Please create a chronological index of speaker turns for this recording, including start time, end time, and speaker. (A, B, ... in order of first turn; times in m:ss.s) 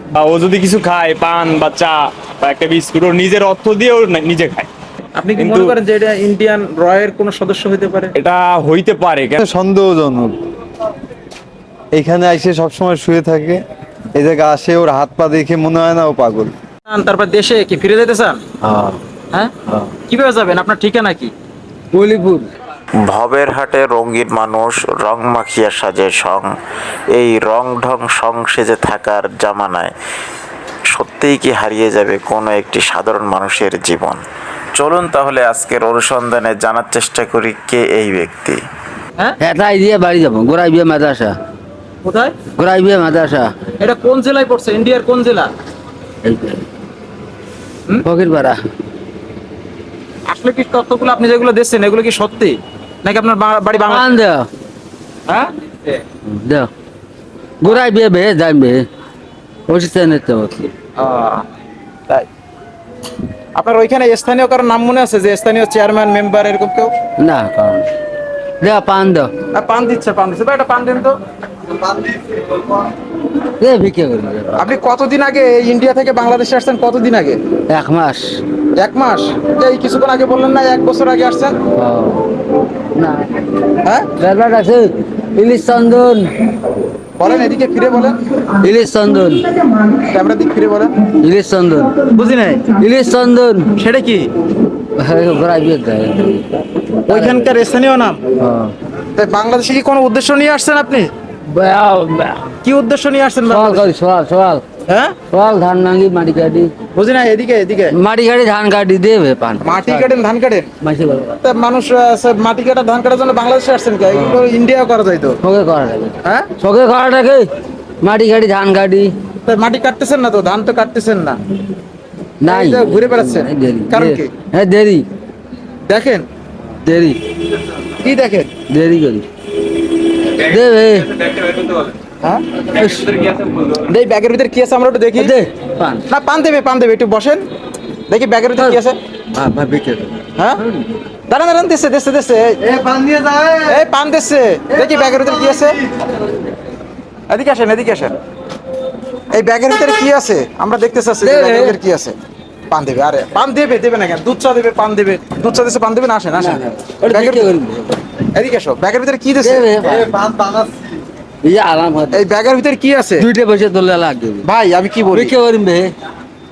0:00.2-0:04.7 A
0:05.2-0:08.1 B
0:05.4-0:05.8 A
0:08.2-0:09.4 A
0:09.4-0:10.4 C
0:11.9-0:13.6 C
0:14.1-0:16.5 C
0:16.9-0:18.4 B
0:18.6-0:19.0 D
0:20.1-0:21.3 B
0:21.9-0:22.5 D
0:23.0-0:26.5 E
0:27.1-0:29.9 E
0:30.9-0:34.2 E
0:34.7-0:38.6 E
0:39.4-0:41.4 D
0:42.0-0:42.4 B
0:42.4-0:43.5 D
0:43.8-0:45.5 B
0:46.2-0:46.6 D
0:48.0-0:48.6 D
0:50.3-0:54.1 B
0:53.9-0:54.5 D
0:56.2-0:56.7 D
0:57.6-0:58.9 D
0:59.7-1:00.7 D
1:01.0-1:01.4 B
1:03.6-1:06.9 B
1:07.2-1:07.9 D
1:08.6-1:09.3 D
1:09.5-1:11.2 B
1:11.7-1:12.7 C
1:13.6-1:14.7 D
1:14.6-1:17.4 B
1:17.7-1:18.4 D
1:18.8-1:21.6 B
1:21.7-1:22.3 D
1:22.9-1:23.3 D
1:23.8-1:24.1 B
1:24.2-1:26.4 D
1:27.2-1:28.2 B
1:28.6-1:29.7 D
1:30.0-1:30.9 B
1:31.1-1:32.0 D
1:32.0-1:32.7 B
1:32.7-1:33.7 D
1:33.7-1:34.3 B
1:34.9-1:36.5 D
1:37.1-1:37.5 D
1:37.1-1:38.2 B
1:38.4-1:38.7 D
1:39.1-1:41.1 B
1:41.4-1:42.5 D
1:42.6-1:43.9 B
1:43.5-1:44.6 D
1:44.9-1:45.2 B
1:45.3-1:46.7 D
1:46.9-1:48.0 B
1:47.9-1:50.1 D
1:49.6-1:50.7 B
1:50.8-1:51.4 D
1:51.4-1:55.4 B
1:55.4-1:57.5 D
1:56.2-1:56.5 B
1:58.0-1:59.1 D
1:59.4-2:01.4 B
2:02.4-2:05.1 D
2:02.4-2:04.3 B
2:05.9-2:06.2 B
2:06.8-2:07.2 D
2:07.9-2:08.5 B
2:08.7-2:09.3 D
2:10.3-2:11.8 D
2:12.7-2:13.2 D
2:13.7-2:15.3 B
2:15.2-2:16.0 D
2:16.1-2:17.4 B
2:18.1-2:19.0 B
2:19.3-2:20.8 D
2:20.4-2:20.6 B
2:21.3-2:22.6 B
2:22.6-2:23.9 C
2:23.7-2:25.8 B
2:24.7-2:26.1 C
2:27.3-2:28.2 B
2:29.3-2:32.1 B
2:31.2-2:31.8 D
2:32.7-2:37.5 B
2:36.4-2:38.0 D
2:38.3-2:39.6 B
2:39.4-2:40.1 D
2:39.8-2:41.0 C
2:41.4-2:42.2 D
2:42.1-2:43.3 B
2:43.2-2:44.5 D
2:44.4-2:45.3 B
2:45.1-2:45.9 D